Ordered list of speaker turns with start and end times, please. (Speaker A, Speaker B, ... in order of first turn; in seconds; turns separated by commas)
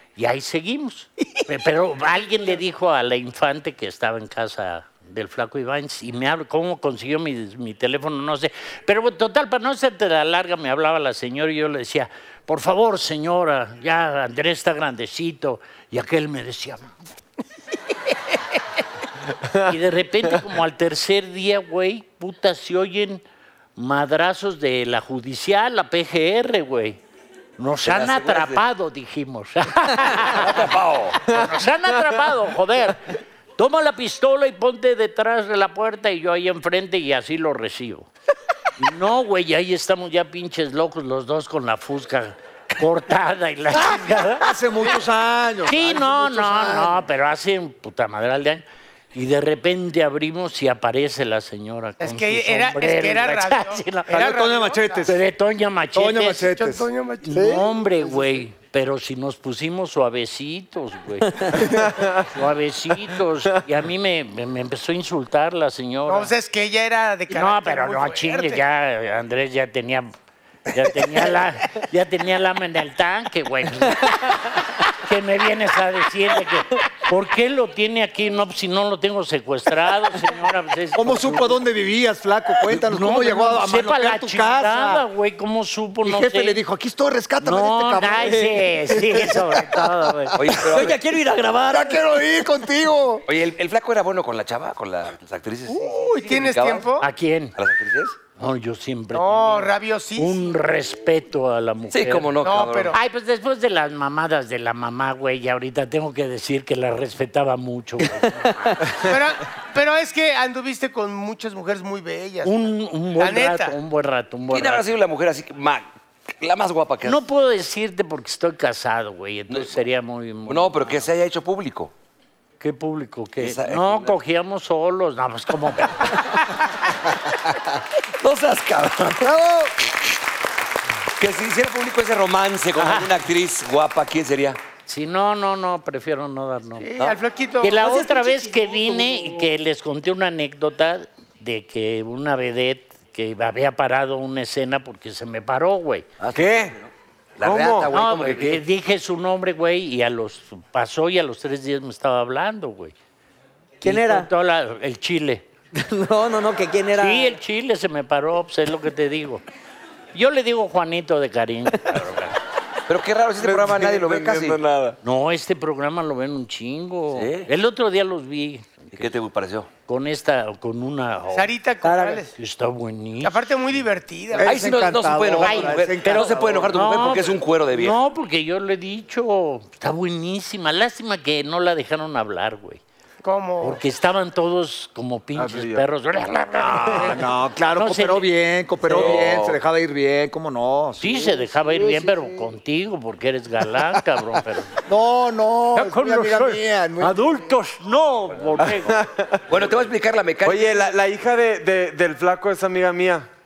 Speaker A: 0.2-16.9, Speaker A: 19.7-23.2, Speaker A: 23.8-27.0, Speaker A: 27.6-30.7, Speaker B: 27.9-28.6, Speaker B: 30.1-31.3, Speaker A: 31.3-33.0, Speaker C: 31.3-32.3, Speaker A: 33.6-38.1, Speaker A: 38.8-44.5, Speaker D: 43.8-47.0, Speaker A: 45.7-54.2, Speaker E: 52.0-55.1, Speaker D: 54.1-55.2, Speaker A: 55.0-56.5, Speaker D: 56.0-57.7, Speaker E: 56.5-58.3, Speaker A: 57.2-61.8, Speaker C: 61.6-62.3, Speaker A: 62.3-66.3, Speaker E: 66.1-68.6, Speaker A: 67.3-70.1, Speaker A: 70.7-81.6, Speaker D: 81.0-85.0, Speaker A: 82.7-86.6, Speaker D: 86.0-90.5, Speaker A: 87.4-90.7, Speaker F: 88.1-88.9, Speaker B: 90.4-91.0, Speaker F: 90.6-92.0, Speaker D: 91.7-93.2, Speaker B: 93.3-96.9, Speaker E: 95.7-97.1, Speaker A: 97.0-97.5, Speaker B: 97.6-98.2, Speaker A: 98.4-102.3, Speaker E: 99.1-100.5, Speaker B: 101.9-102.9, Speaker E: 102.4-103.0, Speaker A: 102.9-109.0, Speaker E: 109.0-113.8, Speaker A: 112.4-114.8, Speaker B: 114.5-115.9, Speaker B: 116.4-117.2, Speaker A: 117.0-121.0, Speaker B: 119.5-119.8, Speaker B: 120.5-121.9, Speaker A: 122.6-126.4, Speaker B: 123.4-124.1, Speaker B: 128.2-129.3, Speaker D: 129.2-129.7, Speaker B: 131.2-134.6, Speaker A: 132.8-133.1, Speaker A: 134.9-136.9, Speaker E: 136.8-138.1, Speaker A: 137.6-146.1, Speaker F: 137.8-139.5, Speaker B: 146.2-148.6, Speaker C: 146.3-146.7, Speaker C: 147.4-147.9, Speaker A: 147.9-152.9, Speaker A: 153.8-155.4, Speaker F: 153.8-154.3, Speaker F: 155.7-157.4, Speaker A: 156.9-159.4, Speaker A: 160.1-162.3, Speaker B: 162.9-164.6, Speaker C: 163.4-165.0, Speaker A: 165.0-169.1, Speaker B: 167.1-167.5, Speaker B: 168.9-169.7, Speaker A: 169.8-171.5, Speaker E: 171.3-172.3, Speaker F: 171.8-172.2, Speaker A: 172.3-173.4, Speaker E: 173.2-174.5, Speaker D: 174.3-176.8, Speaker B: 174.4-178.0, Speaker A: 175.4-182.8, Speaker E: 183.2-183.8, Speaker A: 183.6-188.3, Speaker C: 185.3-185.8, Speaker D: 186.9-192.2, Speaker B: 188.9-189.6, Speaker C: 189.0-189.5, Speaker A: 191.0-194.7, Speaker D: 194.9-197.4, Speaker A: 195.8-199.0, Speaker C: 198.6-199.4, Speaker B: 199.5-200.9, Speaker C: 200.4-203.3